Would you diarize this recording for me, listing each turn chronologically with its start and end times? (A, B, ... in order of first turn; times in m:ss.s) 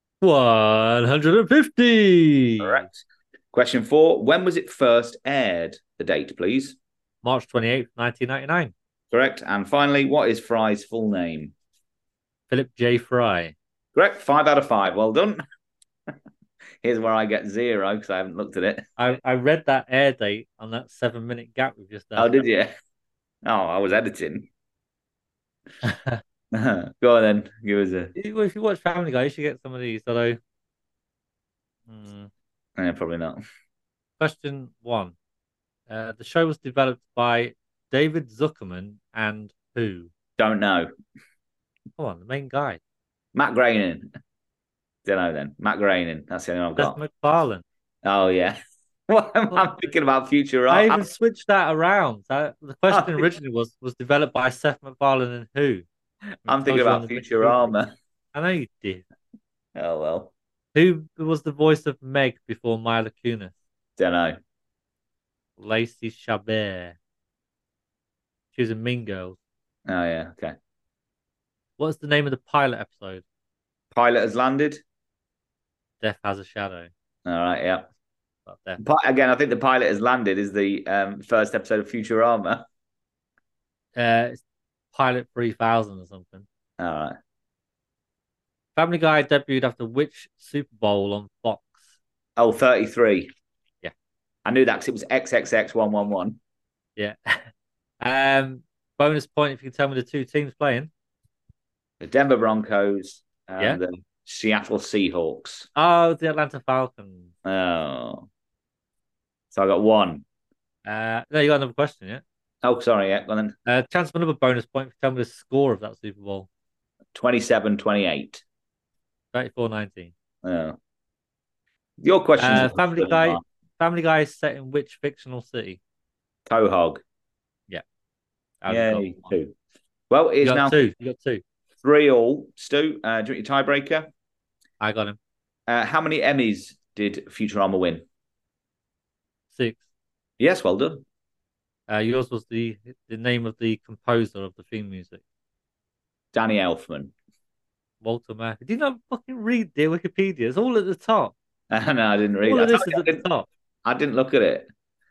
0:00.2-0:02.8 A
0:02.6-0:03.0 B
0:03.5-0:06.8 B
0:07.2-0:08.7 A
0:09.1-0:11.5 B
0:12.5-0:13.5 A
0:13.9-0:15.4 B
0:16.8-0:18.8 B
0:19.0-0:22.4 A
0:22.2-0:22.7 B
0:23.4-0:24.5 B
0:25.8-0:26.2 A
0:26.5-0:28.1 B
0:28.1-0:30.4 A
0:31.9-0:32.3 A
0:32.8-0:33.4 B
0:34.2-0:35.1 A
0:35.9-0:40.1 A
0:40.4-0:40.9 B
0:42.0-0:42.8 A
0:43.3-0:44.1 B
0:45.0-0:47.0 B
0:46.8-0:47.6 A
0:48.0-0:51.0 B
0:50.7-0:55.8 A
0:52.9-0:53.3 B
0:56.4-0:57.7 A
0:56.4-0:57.9 B
0:58.3-0:59.0 A
0:59.7-1:00.3 B
1:00.7-1:03.5 A
1:04.0-1:04.4 B
1:05.6-1:07.0 A
1:08.5-1:09.4 A
1:09.8-1:10.6 B
1:11.8-1:13.2 A
1:13.9-1:14.8 B
1:16.0-1:16.9 A
1:17.2-1:17.9 B
1:18.4-1:18.8 A
1:18.8-1:22.6 B
1:23.9-1:24.4 A
1:24.9-1:26.4 A
1:26.8-1:27.2 B
1:28.8-1:31.8 A
1:32.4-1:33.3 B
1:34.4-1:36.4 B
1:37.0-1:37.5 A
1:38.0-1:40.9 A
1:42.0-1:45.7 B
1:45.7-1:47.3 A
1:47.4-1:48.3 B
1:49.5-1:50.2 B
1:50.8-1:52.2 A
1:52.6-1:53.5 B
1:53.6-1:56.5 A
1:57.1-1:58.4 B
1:59.3-2:00.1 A
2:00.4-2:00.8 B
2:02.0-2:03.4 B
2:02.4-2:05.8 A
2:06.5-2:07.0 B
2:08.6-2:09.2 A
2:08.7-2:09.5 B
2:10.1-2:10.8 B
2:10.4-2:11.4 A
2:11.8-2:14.1 B
2:14.8-2:15.2 A
2:15.7-2:18.0 B
2:19.5-2:19.8 A
2:20.4-2:21.0 B
2:21.9-2:25.2 A
2:26.3-2:27.1 B
2:28.0-2:31.3 A
2:31.7-2:33.2 B
2:32.4-2:33.5 A
2:33.8-2:34.7 B